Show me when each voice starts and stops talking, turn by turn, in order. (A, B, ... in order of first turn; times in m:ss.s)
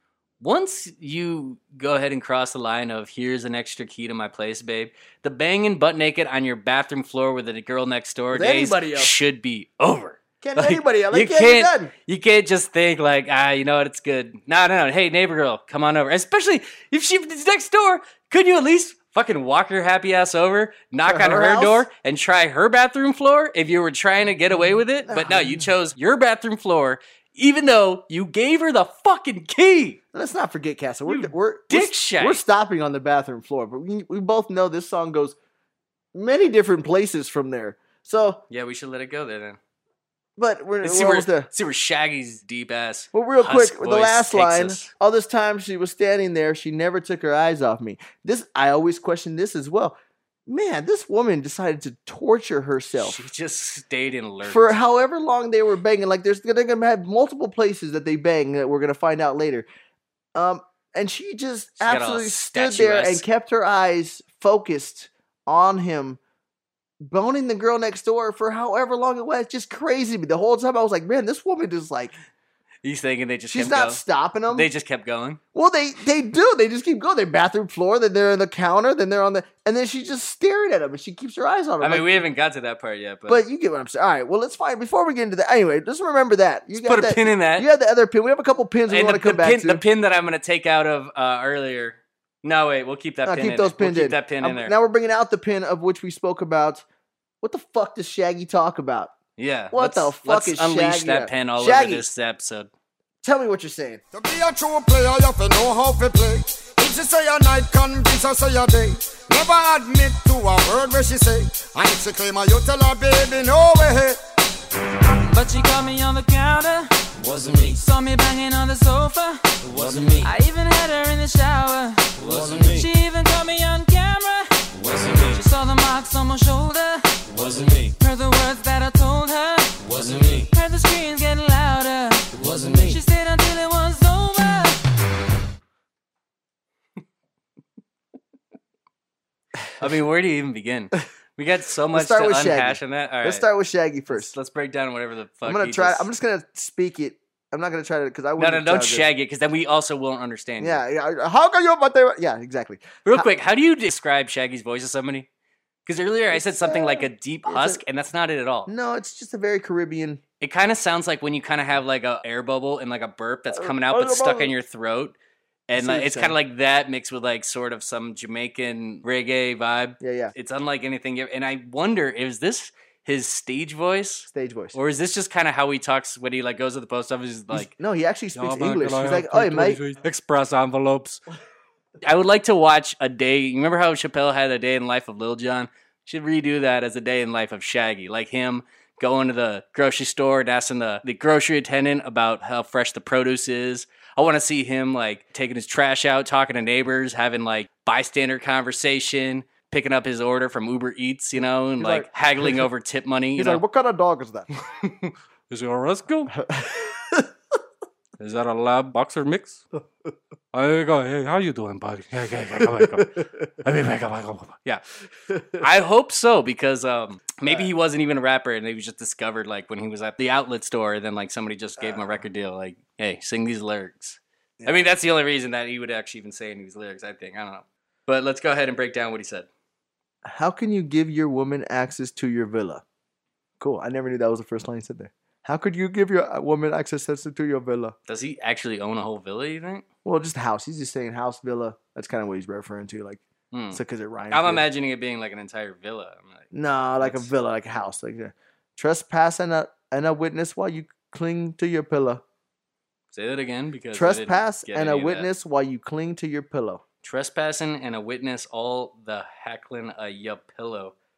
0:00.4-0:30.0 A
0:08.3-0:09.1 B
0:10.4-0:11.9 B
0:21.1-0:21.8 B
0:25.0-0:25.7 B
0:30.1-0:35.4 B
0:31.1-0:32.4 A
0:36.1-0:38.4 B
0:38.5-0:39.6 A
0:40.4-0:41.5 B
0:40.8-0:44.9 A
0:43.1-0:53.2 B
0:52.9-0:54.7 A
0:54.4-0:59.7 B
1:00.3-1:06.2 B
1:01.8-1:03.2 A
1:07.0-1:12.1 B
1:12.8-1:15.4 A
1:13.5-1:14.7 B
1:15.5-1:22.2 B
1:21.8-1:23.4 A
1:23.3-1:29.8 B
1:26.7-1:27.7 A
1:28.9-1:34.7 A
1:33.2-1:36.8 B
1:37.4-1:39.1 B
1:39.4-1:42.7 A
1:39.7-1:42.1 B
1:43.2-1:44.0 B
1:44.1-1:54.2 C
1:55.0-1:59.6 D
1:57.2-1:57.8 E
1:59.7-2:00.2 E
2:00.2-2:07.4 D
2:02.2-2:02.8 E
2:04.8-2:05.3 E
2:07.4-2:07.9 E
2:08.0-2:14.8 D
2:09.9-2:10.4 E
2:12.4-2:12.9 E
2:19.8-2:23.4 A
2:21.9-2:24.3 B
2:24.1-2:26.1 A
2:25.4-2:29.0 B
2:28.4-2:30.8 A
2:30.6-2:33.2 B
2:33.0-2:35.3 A
2:35.8-2:38.7 A
2:36.3-2:37.8 B
2:38.6-2:40.2 B
2:40.4-2:45.2 A
2:43.5-2:44.5 B
2:45.7-2:57.7 A
2:45.7-2:46.4 B
2:50.0-2:50.3 B
2:54.3-2:54.8 B
2:57.5-2:59.8 B
2:58.3-3:01.2 A
3:02.0-3:23.6 A
3:21.8-3:22.6 B
3:23.4-3:24.5 B
3:24.6-3:26.3 A
3:26.3-3:27.3 B
3:28.2-3:29.6 A
3:30.5-3:34.8 A
3:35.3-3:35.6 B
3:35.5-3:49.5 A
3:41.8-3:42.1 B
3:50.2-3:52.8 B
3:53.6-3:57.9 B
3:58.1-3:59.8 A
4:00.0-4:03.2 B
4:03.5-4:06.5 A
4:03.7-4:04.6 B
4:06.5-4:12.2 B
4:07.0-4:07.3 A
4:13.1-4:15.3 A
4:13.9-4:16.8 B
4:17.0-4:20.9 A